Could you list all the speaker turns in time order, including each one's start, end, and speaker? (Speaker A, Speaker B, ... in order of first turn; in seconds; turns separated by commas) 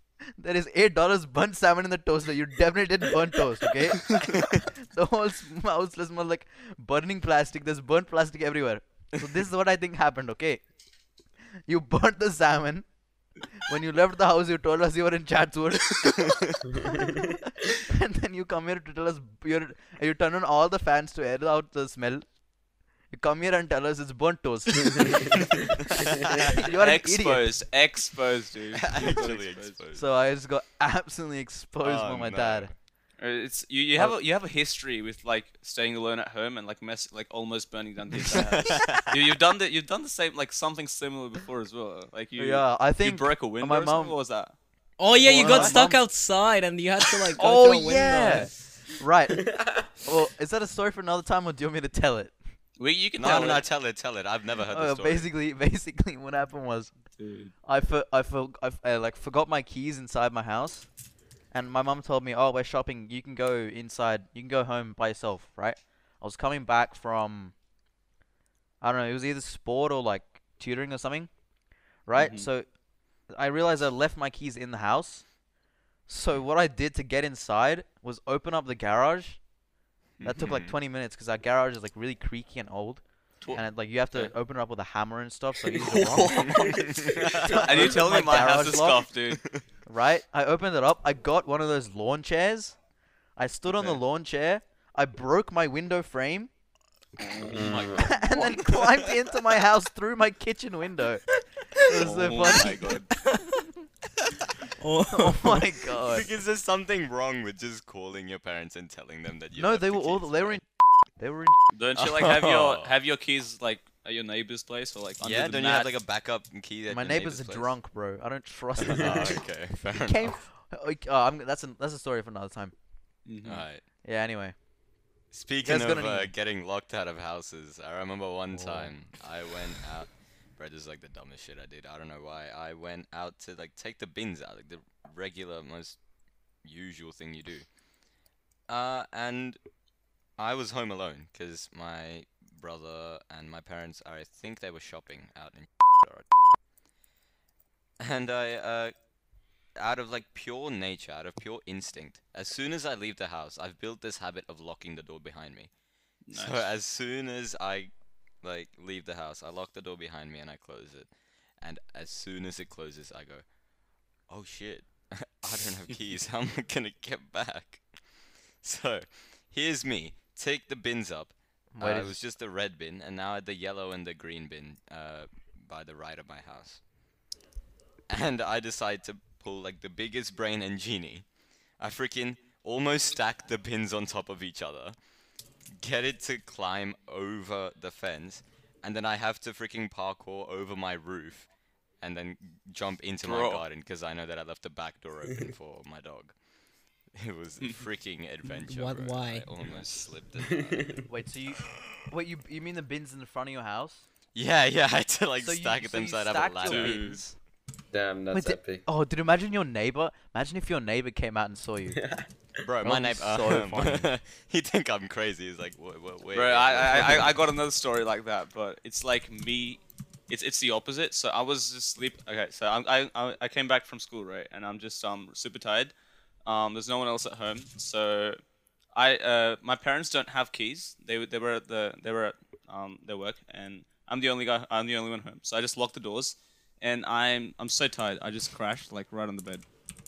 Speaker A: 0.4-16.6, Speaker A: 17.9-27.6, Speaker B: 25.0-25.5, Speaker C: 26.6-29.8, Speaker D: 28.8-30.1, Speaker A: 29.9-32.8, Speaker D: 31.8-32.8, Speaker C: 33.2-45.9, Speaker D: 38.3-39.1, Speaker A: 42.4-44.2, Speaker E: 45.0-48.9, Speaker A: 45.1-46.1, Speaker A: 47.4-52.6, Speaker B: 49.4-50.0, Speaker C: 52.8-53.7, Speaker D: 53.1-55.3, Speaker A: 54.7-67.6, Speaker C: 57.1-57.5, Speaker A: 68.8-75.4, Speaker C: 72.2-72.5, Speaker A: 76.0-79.5, Speaker C: 80.2-80.7, Speaker A: 80.2-89.1, Speaker C: 83.4-84.3, Speaker C: 85.8-89.6, Speaker D: 86.4-87.6, Speaker B: 87.0-87.4, Speaker D: 89.3-89.7, Speaker A: 89.8-96.5, Speaker C: 93.7-94.0, Speaker C: 97.2-98.5, Speaker B: 97.5-98.2, Speaker A: 97.9-103.6, Speaker D: 98.4-98.9, Speaker C: 102.0-103.2, Speaker E: 104.8-105.7, Speaker A: 105.1-106.3, Speaker D: 106.0-110.6, Speaker A: 109.6-110.6, Speaker A: 111.2-111.6, Speaker C: 111.7-115.9, Speaker D: 112.0-112.9, Speaker D: 115.2-117.8, Speaker A: 116.9-123.2, Speaker D: 119.0-120.4, Speaker C: 123.2-123.7, Speaker D: 123.4-123.8, Speaker A: 124.0-124.7, Speaker D: 125.3-136.0, Speaker A: 125.6-126.3, Speaker A: 128.5-128.9, Speaker D: 136.6-137.8, Speaker D: 138.7-139.6, Speaker D: 140.4-146.3, Speaker D: 148.0-148.9, Speaker D: 149.8-155.7, Speaker C: 156.3-156.7, Speaker D: 156.3-163.4, Speaker D: 164.3-167.9, Speaker D: 168.6-176.8, Speaker A: 171.7-172.2, Speaker D: 178.1-181.3, Speaker D: 181.8-185.0, Speaker D: 185.7-191.5, Speaker D: 192.0-196.4, Speaker C: 193.2-193.6, Speaker D: 197.1-201.0, Speaker E: 198.5-199.5, Speaker B: 200.6-201.1, Speaker A: 201.1-204.1, Speaker D: 204.3-207.2, Speaker A: 205.4-207.4, Speaker C: 206.6-207.2, Speaker B: 207.9-208.9, Speaker A: 208.3-212.0, Speaker B: 211.9-212.5, Speaker D: 212.6-217.4, Speaker A: 212.8-214.1, Speaker C: 216.3-225.9, Speaker C: 226.4-228.4, Speaker C: 228.9-239.7